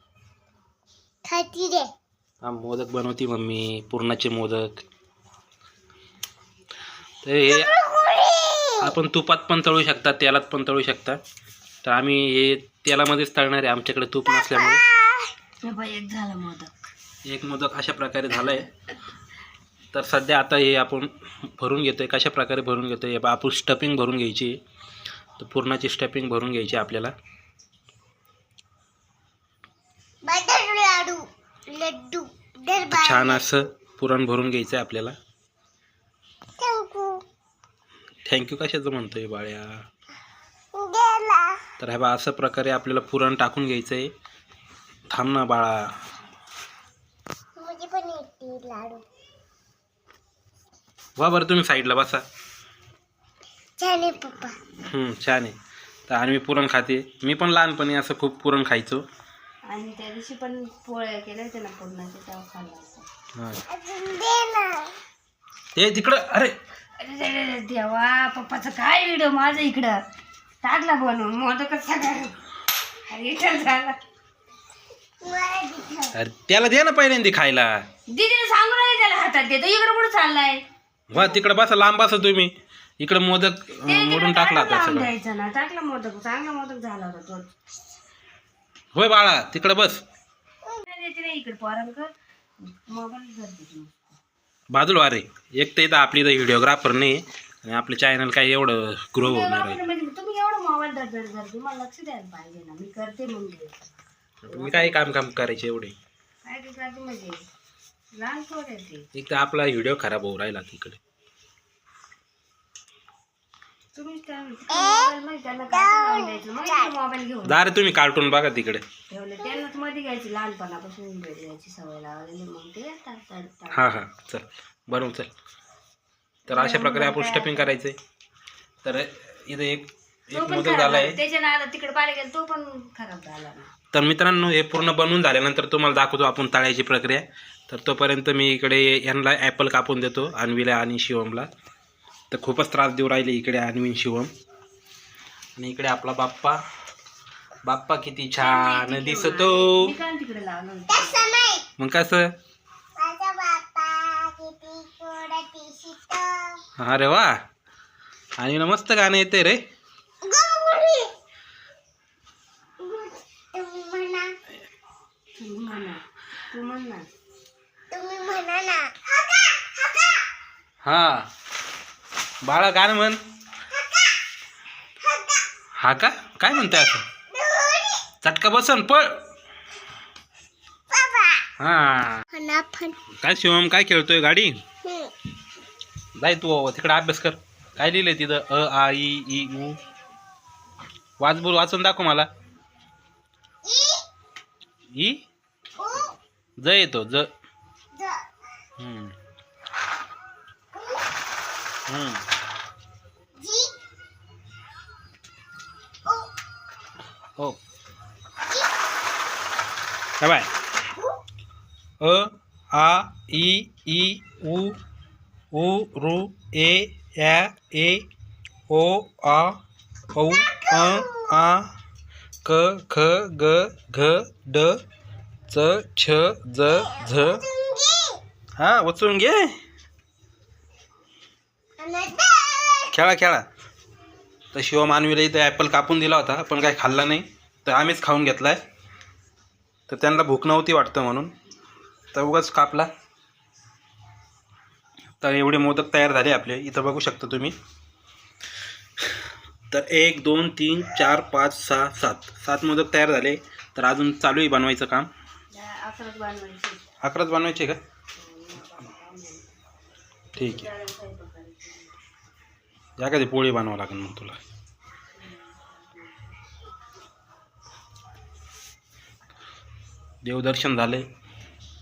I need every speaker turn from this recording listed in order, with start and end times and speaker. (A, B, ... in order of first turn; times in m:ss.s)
0:01.2-0:01.9 A
0:02.4-0:04.8 B
0:07.2-0:07.7 B
0:07.5-0:08.9 A
0:08.8-0:11.2 B
0:11.8-0:14.8 B
0:14.3-0:15.3 A
0:15.6-0:16.9 C
0:17.2-0:18.7 B
0:19.9-0:24.6 B
0:25.4-0:27.1 B
0:30.2-0:33.4 A
0:32.9-0:35.2 B
0:36.6-0:37.2 A
0:38.3-0:39.8 B
0:40.7-0:41.6 A
0:41.8-0:44.1 B
0:45.1-0:45.9 B
0:47.6-0:49.0 A
0:51.2-0:52.2 B
0:53.8-0:54.6 A
0:54.8-0:55.5 B
0:56.1-0:59.0 B
0:59.7-1:03.1 C
1:03.4-1:03.6 B
1:03.7-1:05.0 A
1:05.7-1:06.5 B
1:07.0-1:10.0 C
1:10.6-1:12.4 C
1:13.1-1:14.0 C
1:15.2-1:16.1 A
1:16.1-1:17.8 B
1:18.1-1:20.6 C
1:21.1-1:25.1 B
1:21.1-1:21.4 C
1:23.8-1:27.5 C
1:28.9-1:30.0 B
1:30.8-1:32.1 C
1:32.6-1:34.1 C
1:34.7-1:39.8 B
1:39.2-1:43.9 C
1:44.4-1:45.9 B
1:44.5-1:45.0 C
1:46.4-1:47.4 C
1:48.1-1:49.0 C
1:49.1-1:51.0 B
1:53.9-1:57.8 C
1:54.7-1:55.1 A
1:55.7-1:56.9 A
1:57.4-1:58.8 B
1:59.1-2:03.9 C
2:03.7-2:05.3 B
2:06.5-2:08.0 B
2:06.5-2:07.8 C
2:08.8-2:11.2 B
2:10.3-2:13.7 C
2:13.9-2:21.5 B
2:22.3-2:24.3 B
2:25.6-2:26.6 B
2:27.6-2:29.9 B
2:28.4-2:31.3 C
2:30.9-2:31.6 A
2:31.8-2:32.3 B
2:33.0-2:36.6 A
2:36.8-2:37.4 B
2:38.4-2:39.6 B
2:40.2-2:41.1 A
2:42.8-2:44.4 A
2:45.4-2:47.1 C
2:47.9-2:50.2 A
2:50.8-2:51.3 B
2:52.4-2:53.2 B
2:53.7-2:54.1 A
2:55.0-2:55.5 A
2:55.8-2:57.0 B
2:57.3-2:58.1 A
2:58.2-2:59.2 B
3:00.9-3:01.4 A
3:01.6-3:02.2 B
3:02.3-3:03.0 A
3:03.2-3:04.6 B
3:04.8-3:05.1 A
3:06.2-3:09.8 B
3:11.2-3:12.3 B
3:13.6-3:14.0 A
3:14.9-3:15.2 B
3:15.8-3:16.2 A
3:16.6-3:17.3 B
3:17.9-3:18.3 A
3:18.8-3:19.1 B
3:20.7-3:21.1 A
3:21.9-3:22.2 B
3:23.4-3:23.8 A
3:30.2-3:30.5 B
3:32.0-3:34.8 B
3:35.5-3:38.1 B
3:38.7-3:39.6 B
3:40.1-3:41.7 B
3:40.3-3:41.4 A
3:42.4-3:44.8 B
3:45.5-3:47.4 B
3:46.8-3:48.2 A
3:48.6-3:49.5 B
3:51.8-3:52.9 A
3:52.9-3:53.4 B
3:54.5-3:58.6 B
3:59.9-4:01.3 B
4:02.1-4:02.9 B
4:05.2-4:07.5 B
4:09.7-4:15.1 B
4:15.5-4:16.8 C
4:17.0-4:17.8 B
4:18.2-4:19.6 C
4:20.3-4:22.0 C
4:20.4-4:20.7 B
4:23.0-4:24.4 B
4:25.2-4:26.3 C
4:30.2-4:31.0 B